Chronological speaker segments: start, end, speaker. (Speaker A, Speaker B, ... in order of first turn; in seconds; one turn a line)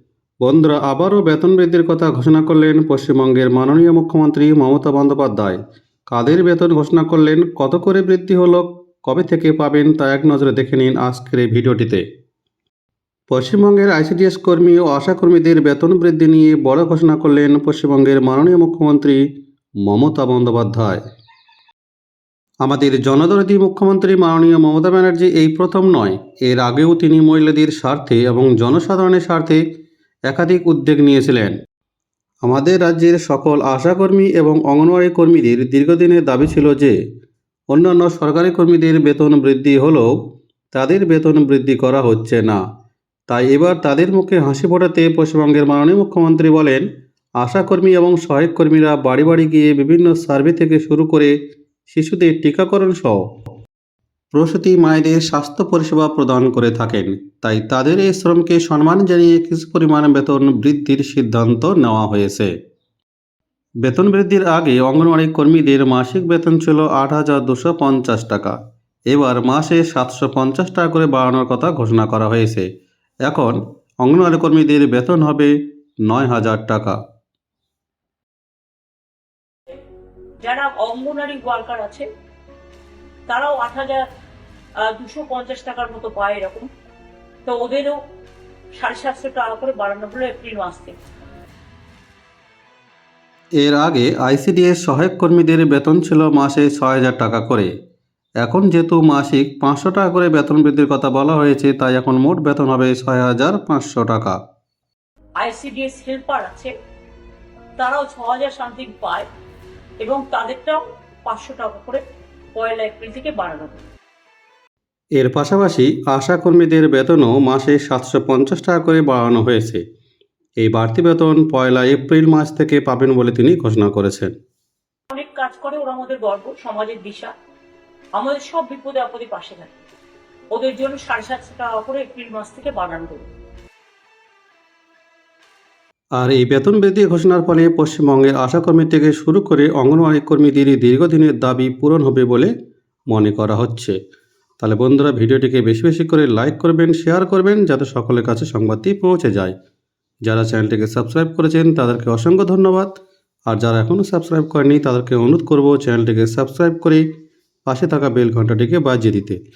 Speaker A: 0.4-5.6
Speaker A: 6.1-12.0
Speaker A: 13.3-19.2
Speaker A: 19.8-21.0
Speaker A: 22.6-29.6
Speaker A: 30.3-31.6
Speaker A: 32.4-37.0
Speaker A: 37.7-40.1
Speaker A: 40.7-42.6
Speaker A: 43.3-46.8
Speaker A: 47.4-51.3
Speaker A: 51.9-53.2
Speaker A: 54.3-62.5
Speaker A: 63.8-68.5
Speaker A: 69.1-72.7
Speaker A: 73.3-75.5
Speaker A: 76.1-77.0
Speaker B: 80.4-82.1
Speaker B: 83.3-84.1
Speaker B: 84.8-86.7
Speaker B: 87.5-88.0
Speaker B: 88.7-91.0
Speaker A: 93.6-97.7
Speaker A: 98.4-104.4
Speaker B: 105.4-106.7
Speaker B: 107.8-109.3
Speaker B: 110.0-112.0
Speaker B: 112.6-113.8
Speaker A: 115.2-119.8
Speaker A: 120.6-124.3
Speaker B: 125.1-127.3
Speaker B: 128.2-129.8
Speaker B: 130.5-133.2
Speaker A: 136.2-142.5
Speaker A: 143.1-144.0
Speaker A: 144.6-149.5
Speaker A: 150.2-152.9
Speaker A: 153.5-157.0
Speaker A: 157.7-159.4